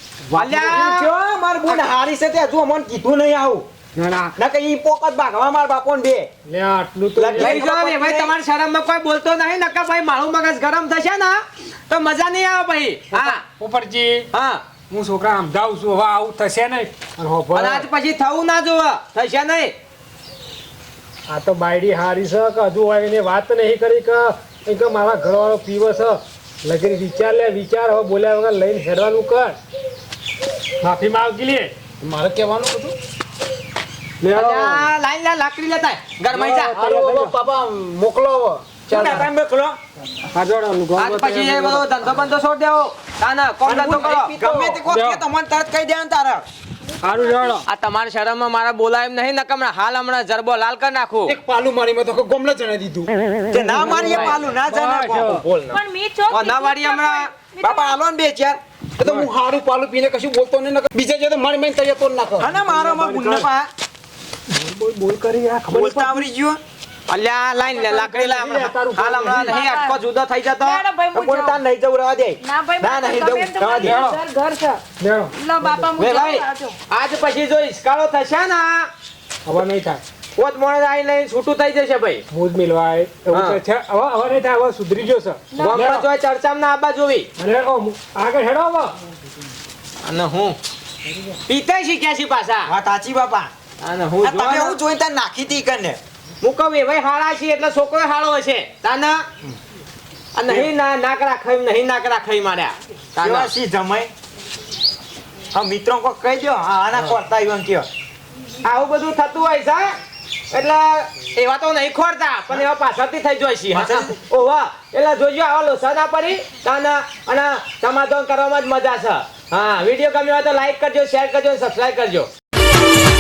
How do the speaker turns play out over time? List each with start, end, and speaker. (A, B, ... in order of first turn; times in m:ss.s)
0:00.3-0:01.0 A
0:00.3-0:01.1 B
0:00.4-0:03.6 C
0:04.0-0:04.4 A
0:04.4-0:06.3 C
0:06.5-0:07.6 A
0:07.2-0:08.3 C
0:07.3-0:13.4 B
0:13.1-0:14.3 A
0:14.3-0:14.6 B
0:14.9-0:17.9 A
0:17.5-0:19.7 B
0:21.3-0:29.6 A
0:30.8-0:31.7 A
0:32.0-0:32.9 D
0:34.2-0:34.7 A
0:34.3-0:36.7 B
0:34.4-0:34.8 D
0:36.3-0:37.4 A
0:36.5-0:39.3 D
0:38.9-0:39.8 C
0:40.3-0:41.9 A
0:41.0-0:44.4 B
0:43.6-0:46.4 C
0:44.4-0:44.8 D
0:44.8-0:45.2 A
0:47.0-0:47.6 A
0:47.2-0:47.5 E
0:47.6-0:51.4 B
0:51.3-0:54.4 D
0:53.5-0:55.3 C
0:53.8-0:54.4 B
0:53.8-0:55.4 A
0:55.3-0:55.8 D
0:55.7-0:58.0 E
0:56.3-0:57.3 B
0:57.6-0:58.6 C
0:59.0-1:02.5 D
0:59.0-0:59.3 A
1:02.4-1:03.7 C
1:02.6-1:03.5 A
1:04.5-1:06.3 A
1:05.7-1:06.6 C
1:07.1-1:10.8 B
1:07.7-1:09.6 A
1:09.5-1:10.0 E
1:10.6-1:11.6 E
1:11.1-1:14.0 C
1:12.4-1:16.8 E
1:13.8-1:14.2 A
1:15.0-1:15.9 A
1:16.0-1:18.9 B
1:19.4-1:20.0 A
1:20.4-1:22.2 B
1:22.3-1:26.1 A
1:23.3-1:23.6 B
1:25.5-1:25.8 E
1:25.6-1:27.3 B
1:27.4-1:28.9 A
1:30.0-1:30.6 B
1:31.5-1:32.7 B
1:32.7-1:33.5 C
1:33.8-1:34.8 B
1:34.2-1:36.0 C
1:36.4-1:39.2 B
1:40.4-1:43.5 B
1:43.2-1:44.1 C
1:45.5-1:47.9 C
1:48.6-1:50.0 B
1:50.5-2:02.3 B
1:53.7-1:54.1 C